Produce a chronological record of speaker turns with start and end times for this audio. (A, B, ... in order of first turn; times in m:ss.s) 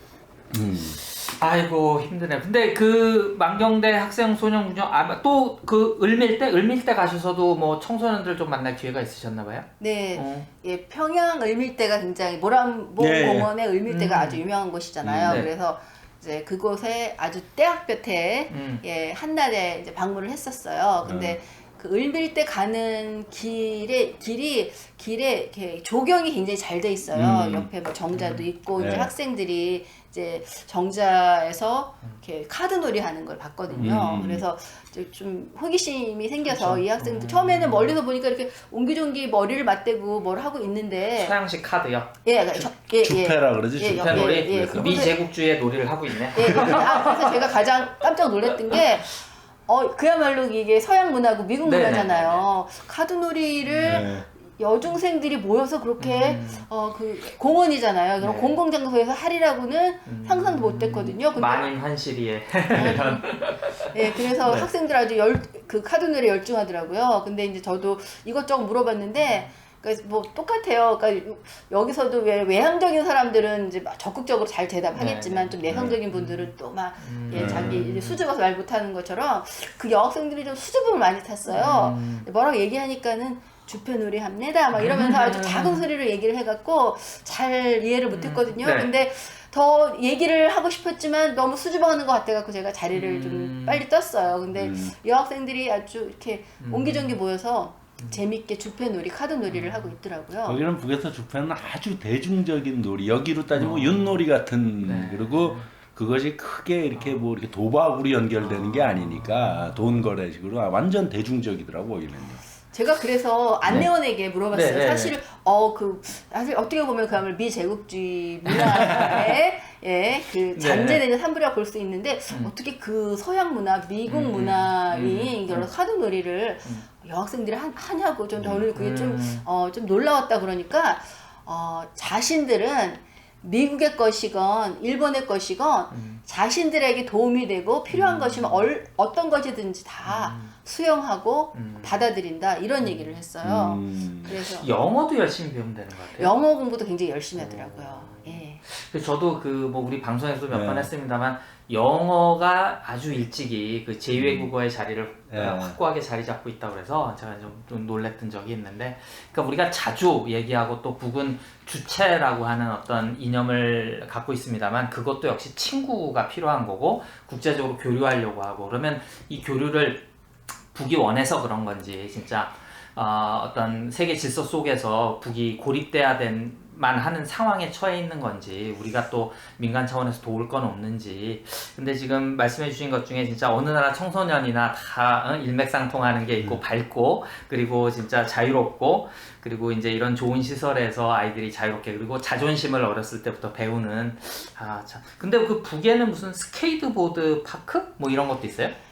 0:00.5-0:01.0 A
0:01.0-0:10.5 B
0:09.8-0:41.4 C
0:13.0-0:13.5 A
0:13.9-0:14.4 B
0:15.0-0:15.5 A
0:18.5-0:18.8 B
0:21.0-0:21.4 A
0:27.1-0:27.7 A
0:28.1-0:28.4 B
0:28.8-0:29.1 A
0:33.7-0:34.0 B
0:33.8-0:34.4 A
0:36.5-0:38.0 B
0:41.2-0:42.2 B
0:42.2-0:45.2 C
0:43.0-0:45.2 A
0:43.9-0:47.5 B
0:46.3-1:01.7 C
0:46.6-0:46.8 A
0:51.6-0:52.4 B
0:53.6-0:54.0 B
0:53.8-0:54.2 A
0:56.0-0:56.7 B
0:58.2-0:58.6 B
1:00.1-1:04.7 B
1:02.7-1:03.2 C
1:03.9-1:40.6 C
1:09.2-1:09.5 B
1:15.0-1:18.2 B
1:15.7-1:16.0 A
1:17.3-1:17.8 A
1:21.5-1:22.3 B
1:24.8-1:25.9 B
1:28.1-1:28.9 B
1:32.9-1:33.8 B
1:34.6-1:34.9 A
1:36.6-1:37.2 B
1:39.5-1:40.0 B
1:40.4-1:52.5 A
1:43.6-1:44.2 B
1:44.8-1:45.7 B
1:48.4-1:50.1 B
1:52.7-2:24.7 C
1:54.5-1:55.2 B
1:58.5-1:59.4 B
2:00.5-2:01.0 B
2:04.1-2:05.7 B
2:08.4-2:08.6 A
2:08.8-2:09.4 B
2:15.9-2:16.2 B
2:17.9-2:18.7 B
2:20.0-2:20.5 B
2:21.5-2:22.0 B
2:22.8-2:23.2 B
2:23.4-2:24.4 A
2:24.4-2:26.3 B
2:26.2-2:28.6 C
2:27.4-2:50.1 B
2:30.5-2:30.9 A
2:34.2-2:34.5 A
2:35.3-2:35.8 A
2:50.7-3:18.8 B